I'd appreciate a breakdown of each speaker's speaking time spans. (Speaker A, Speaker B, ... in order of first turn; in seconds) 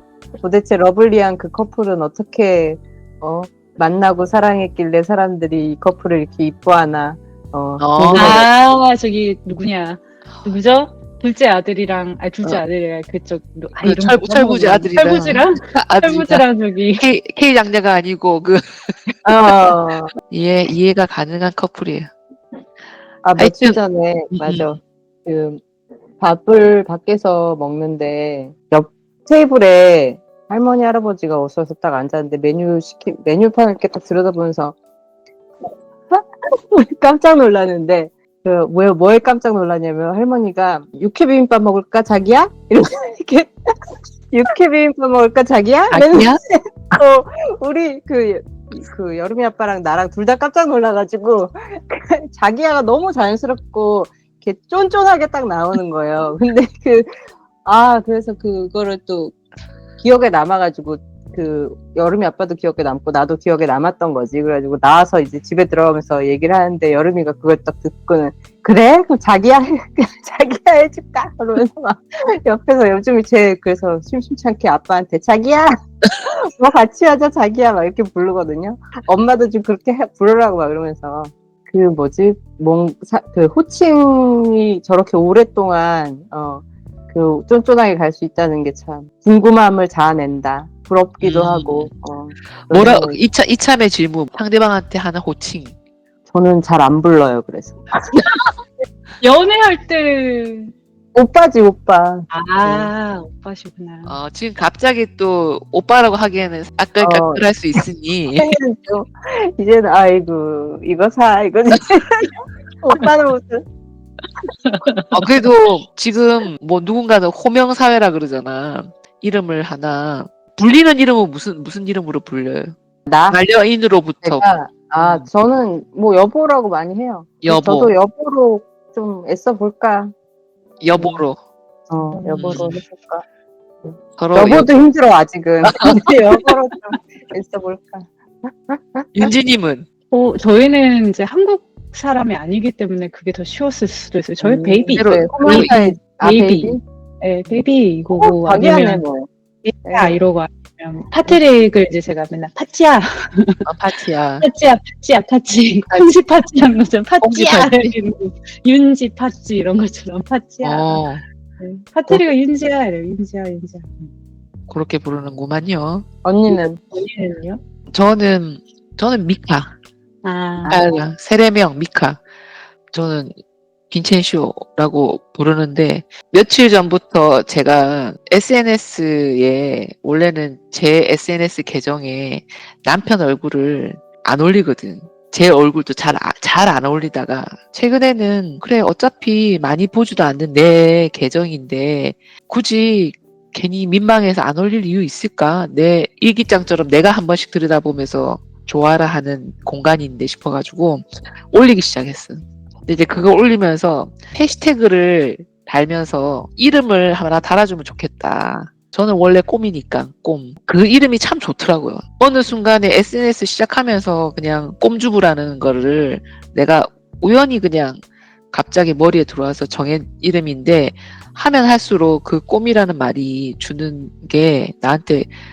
Speaker A: 0.4-8.4, 19.2-20.1, 23.2-25.6, 26.2-34.7, 36.1-59.4, 60.0-93.2, 96.3-97.9, 101.1-102.9, 107.0-107.4, 108.3-113.6, 123.0-123.4, 124.2-130.1, 130.9-131.2, 131.9-133.2, 133.8-139.3, 144.4-146.8, 148.1-149.3, 149.8-150.2, 166.2-166.8
Speaker B: 7.8-8.5, 13.8-16.4, 17.0-19.5, 20.3-22.1, 23.4-23.8, 24.3-24.7, 45.9-46.4, 91.2-91.9, 92.7-95.7, 104.0-108.5, 115.1-122.7, 123.3-124.5, 125.0-125.3, 127.4-127.9, 130.8-131.4, 132.3-132.8, 134.2-134.7, 135.6-136.6, 139.1-139.9, 144.9-145.7, 153.6-154.5, 157.2-158.0, 160.6-161.2, 164.7-166.1, 167.9-169.7, 170.7-172.2, 172.9-173.3, 173.9-218.0, 218.5-225.3
Speaker C: 8.1-17.0, 99.2-100.7, 102.3-104.2, 114.6-115.2, 132.0-132.8, 140.1-149.0, 149.6-153.7, 154.4-161.0, 161.6-164.1, 166.8-167.6, 170.2-170.9